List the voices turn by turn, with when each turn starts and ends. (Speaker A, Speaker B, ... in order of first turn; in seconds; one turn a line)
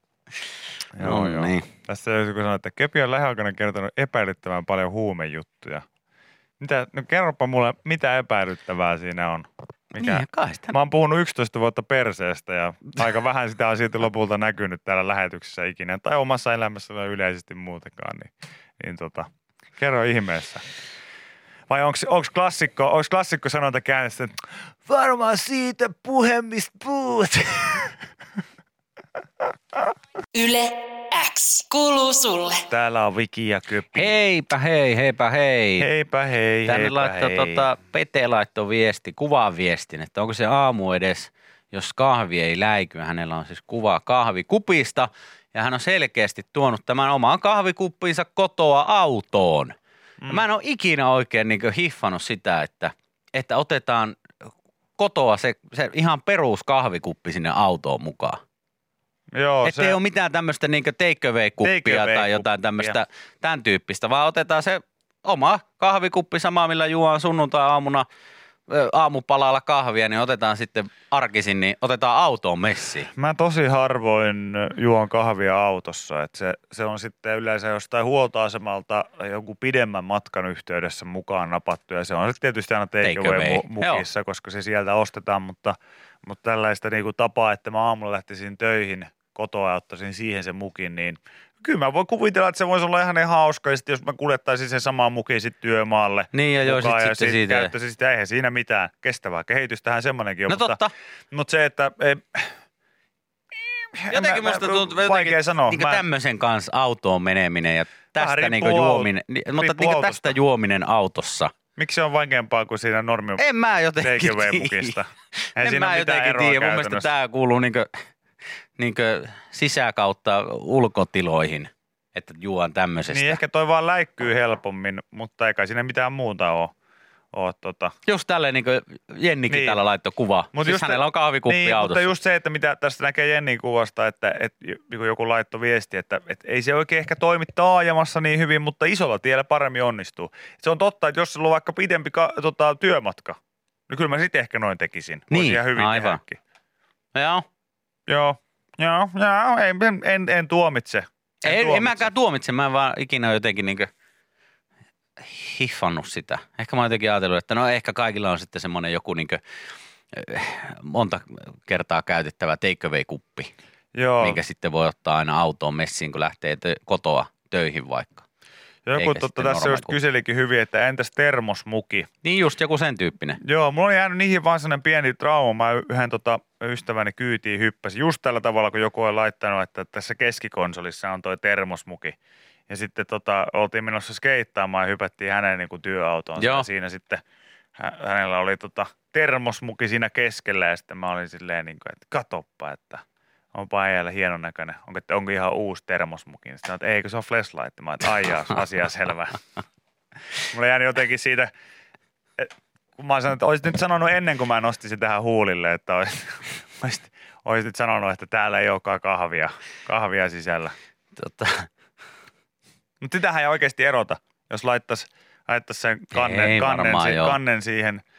Speaker A: 0.9-5.8
Speaker B: 1.0-1.6
Speaker A: 6.6-20.6
Speaker B: 9.9-10.8
Speaker A: 21.7-27.9
Speaker C: 30.3-32.6
Speaker A: 32.7-34.1
Speaker B: 33.9-35.9
Speaker A: 35.8-37.7
Speaker B: 36.6-49.7
Speaker B: 50.3-54.2
Speaker B: 55.0-58.4
Speaker A: 59.3-60.0
Speaker B: 59.6-68.1
Speaker A: 61.6-63.0
Speaker B: 68.7-73.1
Speaker A: 73.2-102.5
Speaker B: 83.0-84.0
Speaker B: 96.3-97.7
Speaker B: 100.5-100.9
Speaker A: 103.9-106.0
Speaker B: 104.1-111.5
Speaker A: 108.2-110.3
Speaker A: 111.8-113.4
Speaker B: 113.4-115.0
Speaker A: 114.0-117.1
Speaker B: 115.5-117.9
Speaker B: 118.8-123.4
Speaker A: 123.1-126.7
Speaker A: 127.3-127.9
Speaker B: 128.1-132.0
Speaker A: 129.5-129.8
Speaker A: 130.5-143.4
Speaker A: 143.9-146.4
Speaker B: 145.3-146.2
Speaker B: 147.1-147.4
Speaker A: 148.1-152.1
Speaker B: 151.4-153.9
Speaker B: 155.2-159.4
Speaker B: 160.1-163.5
Speaker A: 163.9-164.4
Speaker B: 164.2-168.2
Speaker A: 168.8-172.1
Speaker B: 169.0-169.9
Speaker B: 172.2-173.4
Speaker A: 173.4-182.2
Speaker A: 182.7-187.2
Speaker B: 186.4-186.7
Speaker A: 187.8-199.4
Speaker A: 200.5-201.5
Speaker A: 202.4-210.7
Speaker B: 211.2-211.7
Speaker A: 213.0-218.0
Speaker B: 216.1-217.4